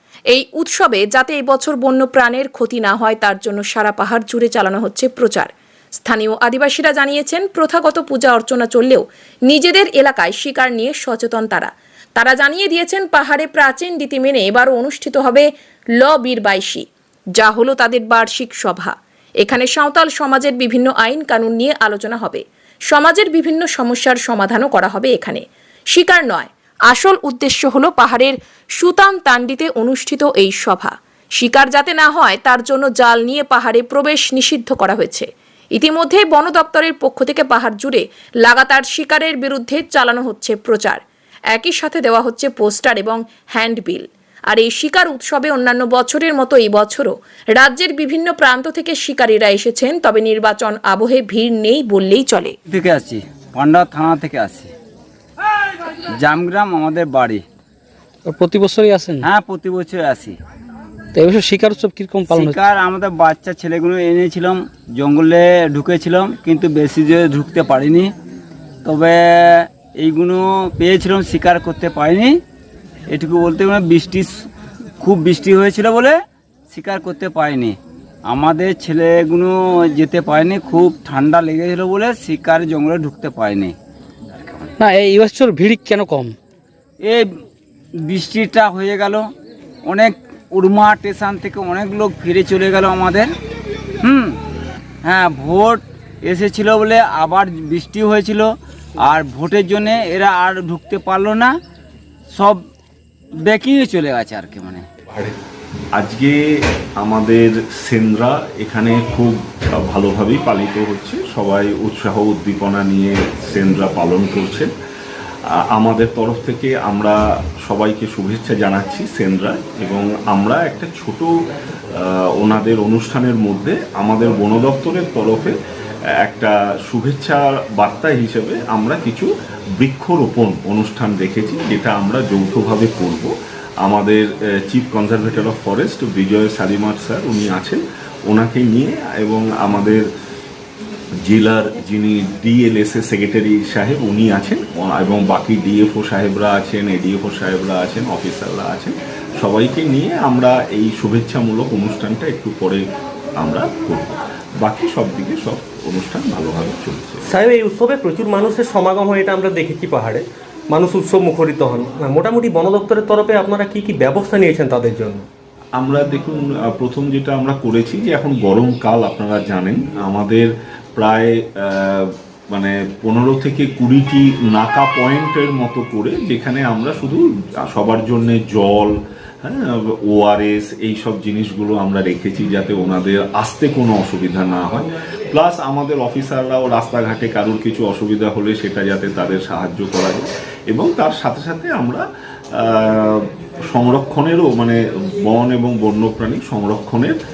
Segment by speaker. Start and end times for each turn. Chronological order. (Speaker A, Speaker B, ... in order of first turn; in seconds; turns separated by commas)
Speaker A: 0.3-15.5, Speaker A: 16.0-41.0, Speaker A: 41.5-52.5, Speaker B: 52.7-54.7, Speaker B: 56.2-57.4, Speaker C: 58.2-59.2, Speaker B: 59.2-60.4, Speaker C: 61.1-62.6, Speaker B: 62.3-68.1, Speaker B: 68.8-72.4, Speaker B: 73.1-74.5, Speaker B: 75.0-76.2, Speaker B: 76.7-83.7, Speaker B: 84.4-84.7, Speaker C: 84.8-86.3, Speaker B: 87.0-87.3, Speaker B: 88.0-89.2, Speaker B: 89.8-93.3, Speaker B: 94.0-94.4, Speaker B: 95.0-101.5, Speaker B: 102.3-102.6, Speaker B: 103.4-104.8, Speaker D: 105.1-105.3, Speaker E: 105.9-106.3, Speaker E: 107.0-114.7, Speaker E: 115.5-121.3, Speaker E: 121.9-125.5, Speaker E: 126.2-140.0, Speaker E: 141.2-152.9, Speaker E: 153.4-157.2, Speaker D: 157.2-165.2, Speaker E: 165.8-197.2